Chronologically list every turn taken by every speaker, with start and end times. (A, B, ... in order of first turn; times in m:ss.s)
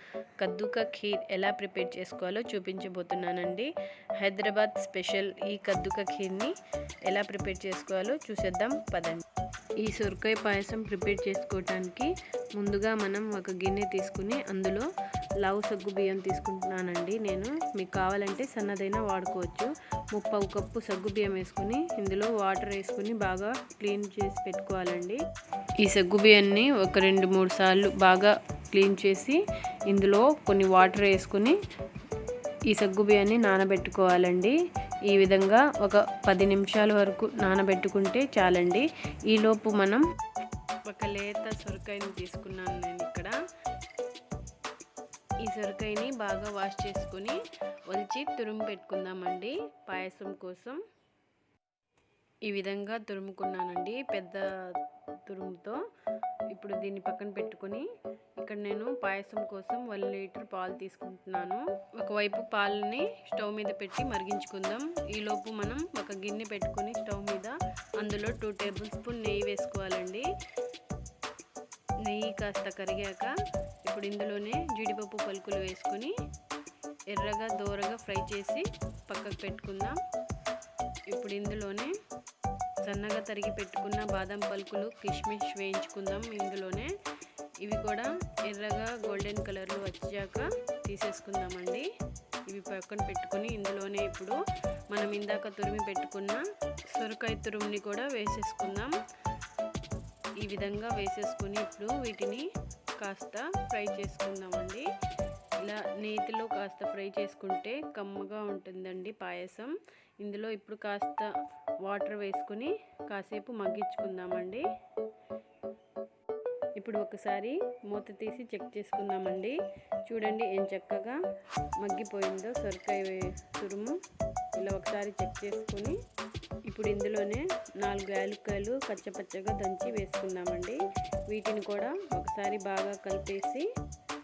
0:00.4-0:06.5 A
0:07.1-0:09.2 A
0:09.8-0:14.9 A
0:15.4-0:25.2 A
0:25.8-0:29.4 A
0:29.9-0:31.6 A
0:32.7-0:34.6 A
0:35.1-0:40.0 A
0:40.9-0:43.3 A
0:45.4-0:47.4 A
0:47.9-0:50.8 A
0:52.5-0:54.4 A
0:55.2-0:55.8 A
0:56.5-0:57.8 A
0:58.4-1:10.2 A
1:12.0-1:13.3 A
1:13.8-1:16.1 A
1:17.1-1:20.0 A
1:21.1-1:21.9 A
1:22.8-1:26.9 A
1:27.6-1:31.8 A
1:32.5-1:34.3 A
1:34.9-1:36.4 A
1:36.9-1:38.9 A
1:40.4-1:42.5 A
1:43.0-1:44.8 A
1:45.6-1:51.3 A
1:51.8-1:54.6 A
1:56.8-2:01.2 A
2:01.8-2:04.0 A
2:04.6-2:06.0 A
2:06.7-2:13.6 A